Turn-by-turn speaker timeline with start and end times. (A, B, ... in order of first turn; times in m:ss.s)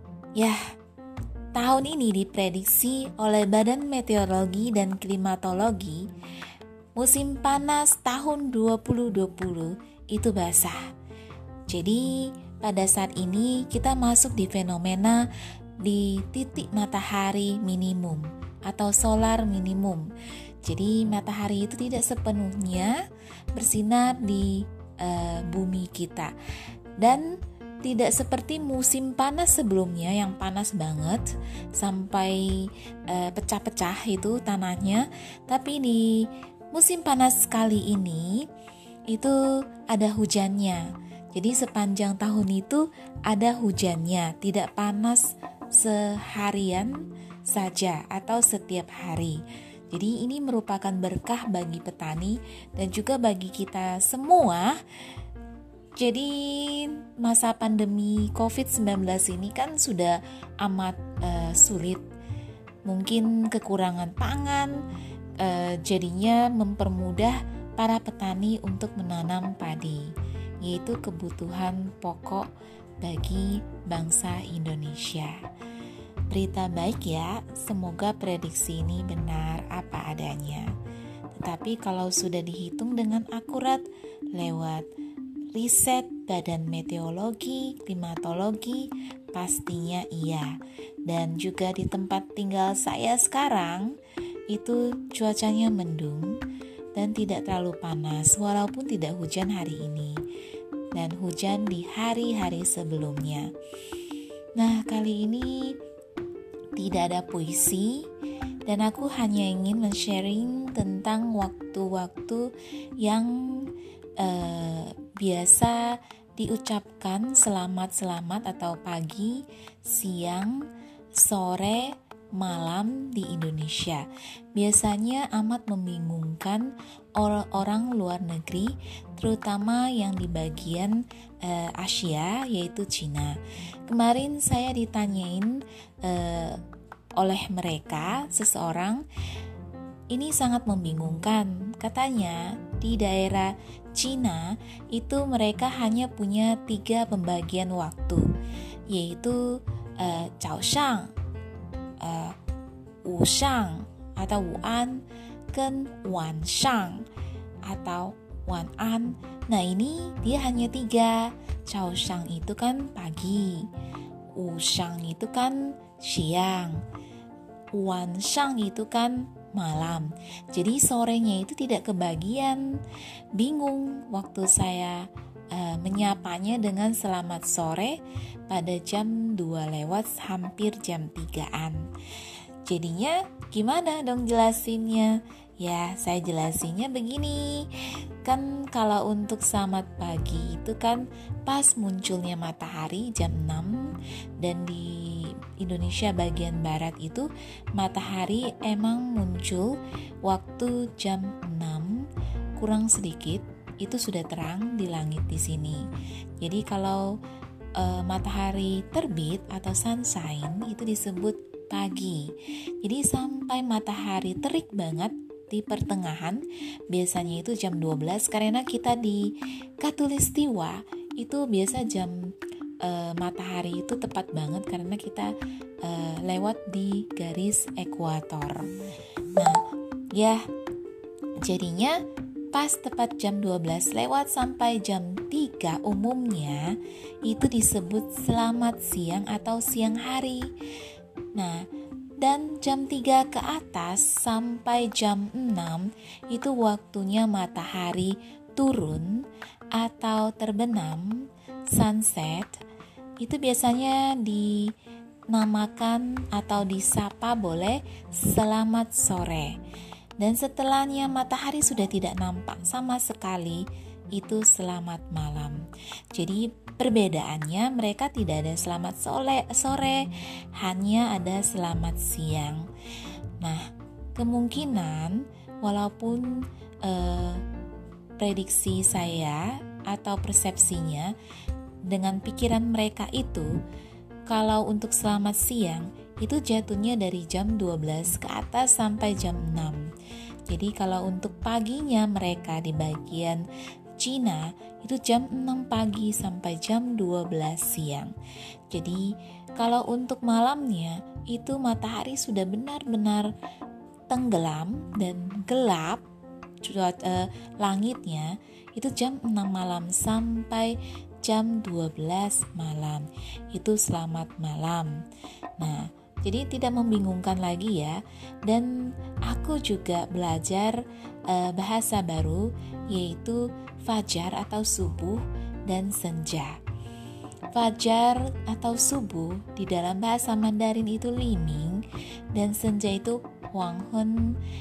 0:01.5-0:06.0 A
0:07.0-0:10.8 A
0:11.7-0:15.2 A
0:15.8-0:20.0 A
0:20.6-0:23.0 A
0:23.5-0:26.3 A
0:27.0-0:27.3 A
0:27.8-0:38.4 A
0:39.1-0:39.4 A
0:39.9-0:49.4 A
0:49.9-0:54.8 A
0:56.0-1:02.0 A
1:02.8-1:04.8 A
1:05.4-1:10.1 A
1:10.6-1:12.5 A
1:13.0-1:15.4 A
1:16.3-1:20.7 A
1:21.3-1:24.9 A
1:25.5-1:34.0 A
1:34.5-1:36.4 A
1:36.9-1:40.2 A
1:40.9-1:43.5 A
1:44.6-1:45.7 A
1:46.8-1:48.0 A
1:48.6-2:00.6 A
2:01.2-2:16.6 A
2:17.2-2:19.0 A
2:20.1-2:28.3 A
2:28.9-2:29.4 A
2:30.0-2:31.1 A
2:32.0-2:32.4 A
2:33.0-2:35.0 A
2:35.5-2:37.0 A
2:37.6-2:43.7 A
2:44.4-2:46.8 A
2:47.8-2:52.6 A
2:53.3-2:58.0 A
2:58.5-3:01.8 A
3:02.6-3:22.0 A
3:22.6-3:25.8 A
3:26.4-3:27.0 A
3:27.8-3:42.3 A
3:42.8-3:48.7 A
3:49.3-3:49.6 A
3:50.1-3:50.4 A
3:51.4-3:52.0 A
3:52.5-4:00.5 A
4:01.3-4:01.6 A
4:02.2-4:09.2 A
4:09.7-4:12.6 A
4:13.2-4:14.7 A
4:15.3-4:19.6 A
4:20.2-4:32.7 A
4:33.4-4:37.4 A
4:38.2-4:41.1 A
4:41.9-4:43.5 A
4:44.3-4:49.9 A
4:50.5-4:53.4 A
4:54.0-4:58.1 A
4:58.7-5:03.3 A
5:04.1-5:06.0 A
5:06.6-5:15.0 A
5:15.6-5:18.7 A
5:19.2-5:26.5 A
5:27.5-5:31.8 A
5:32.3-5:34.4 A